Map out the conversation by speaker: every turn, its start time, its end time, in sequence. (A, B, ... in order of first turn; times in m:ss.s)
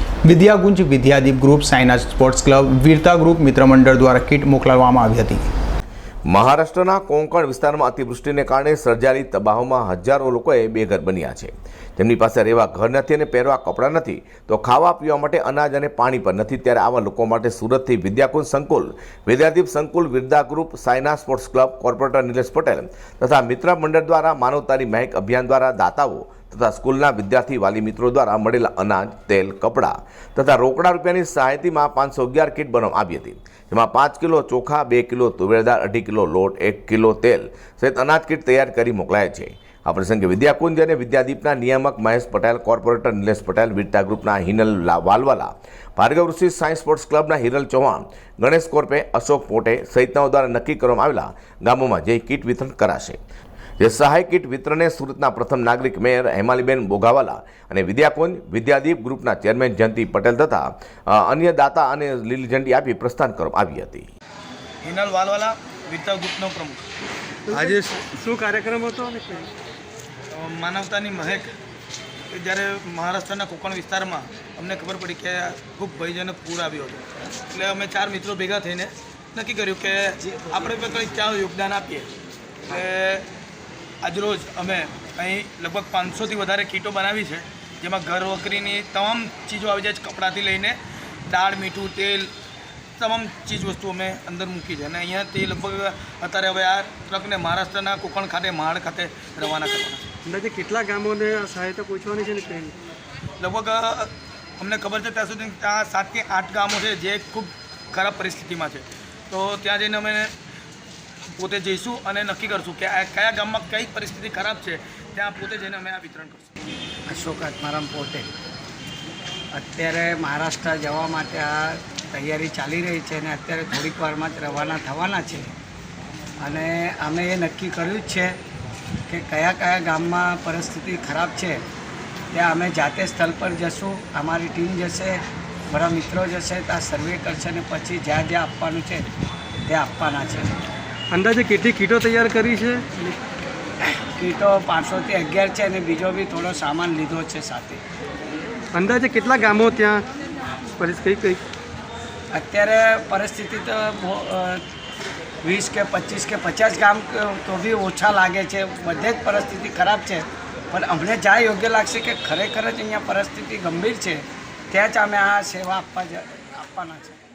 0:00.2-0:05.4 A
0:06.3-0:53.2 B
0:53.8-1:04.1 B
1:04.8-1:06.8 C
1:07.5-1:09.5 D
1:07.5-1:08.0 C
1:10.3-1:11.5 C
1:12.3-1:22.1 C
1:22.7-1:23.3 C
1:24.0-1:32.3 C
1:33.0-1:40.0 C
1:40.2-1:42.8 D
1:43.4-1:50.3 C
1:51.4-1:56.5 C
1:57.1-1:58.3 E
1:59.5-2:05.5 E
2:06.4-2:08.4 E
2:09.1-2:11.6 E
2:12.3-2:19.1 E
2:19.6-2:20.5 E
2:21.1-2:23.2 D
2:23.8-2:27.8 E
2:28.7-2:30.0 D
2:30.8-2:31.4 D
2:32.3-2:34.6 E
2:35.4-2:47.2 E